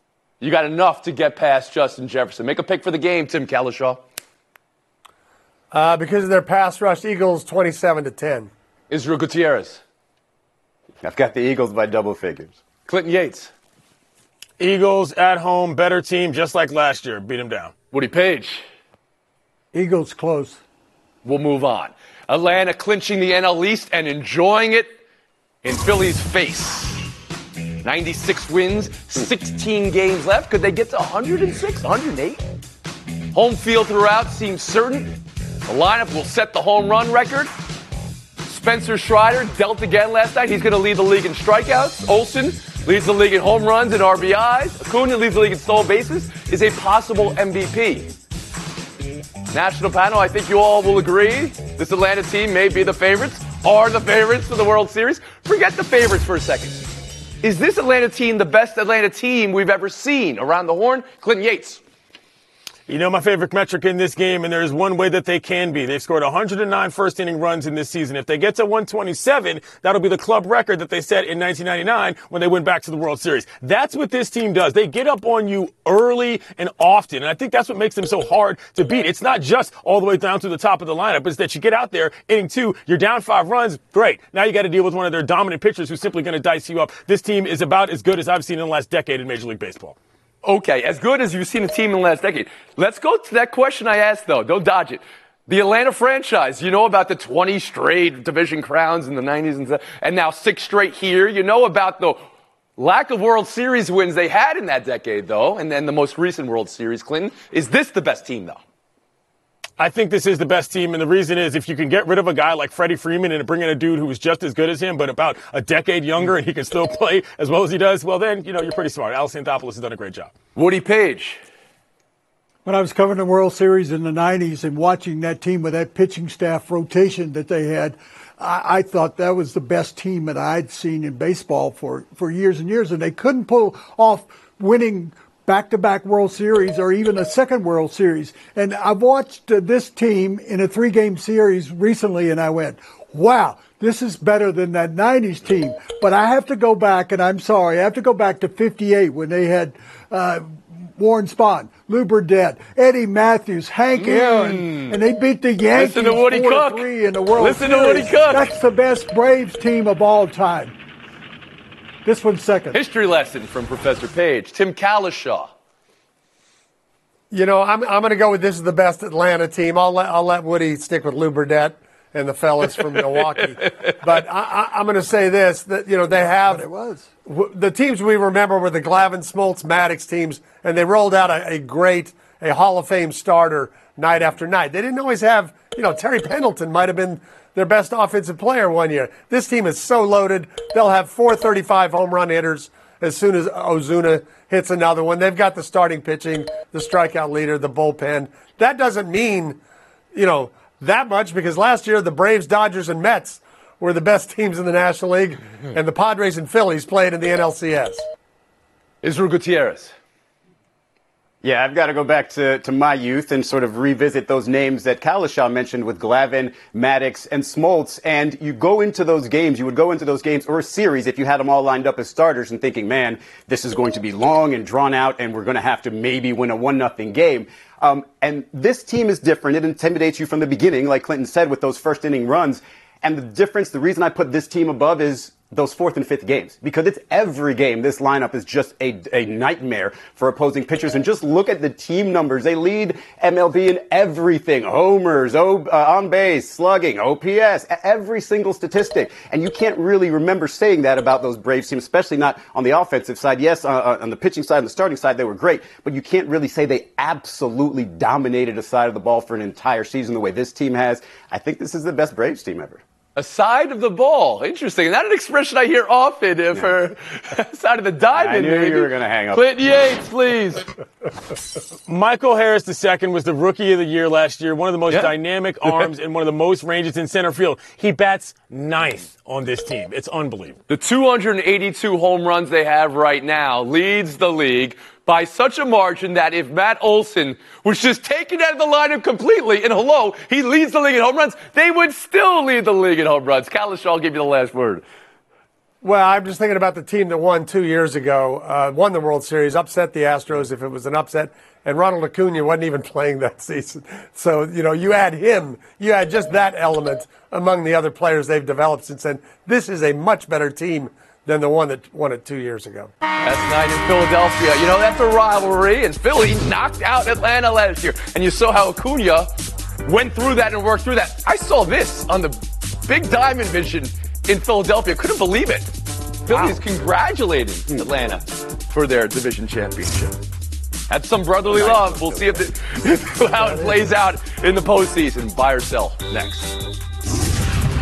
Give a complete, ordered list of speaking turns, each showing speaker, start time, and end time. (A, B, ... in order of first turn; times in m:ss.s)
0:00.4-0:04.0 A
0:05.7-0:08.5 B
0:08.9-0:09.8 A
0:11.0-0:12.5 C
0:12.8-0:13.5 A
0:14.6-0:17.7 D
0:17.9-0:18.6 A
0:19.7-0:20.6 E
0:21.2-0:24.9 A
0:25.6-0:27.0 A
0:27.8-0:32.4 A
0:33.3-0:37.5 A
0:38.4-0:48.1 A
0:49.5-0:56.9 A
0:57.4-1:01.8 A
1:02.9-1:30.0 D
1:30.4-1:42.2 A
1:42.8-1:48.6 A
1:49.8-2:00.3 D
2:00.5-2:01.4 A
2:02.6-2:40.7 E
2:34.0-2:35.0 A
2:35.7-2:38.5 A
2:42.0-2:42.8 E
2:42.7-2:45.5 A
2:47.3-2:56.6 B
2:56.1-2:57.1 E
2:57.2-3:19.6 B
3:20.1-3:28.0 B
3:29.0-3:29.9 A
3:31.4-4:22.8 C
4:23.2-4:30.6 A
4:28.1-4:29.4 C
4:31.9-4:40.6 D
4:35.6-4:35.9 A
4:40.7-4:54.8 A
4:55.8-5:12.9 B
5:13.2-5:19.3 A
5:19.8-5:25.7 A
5:26.2-5:30.2 A
5:30.9-5:36.5 A
5:31.6-5:32.3 C
5:33.3-5:33.9 B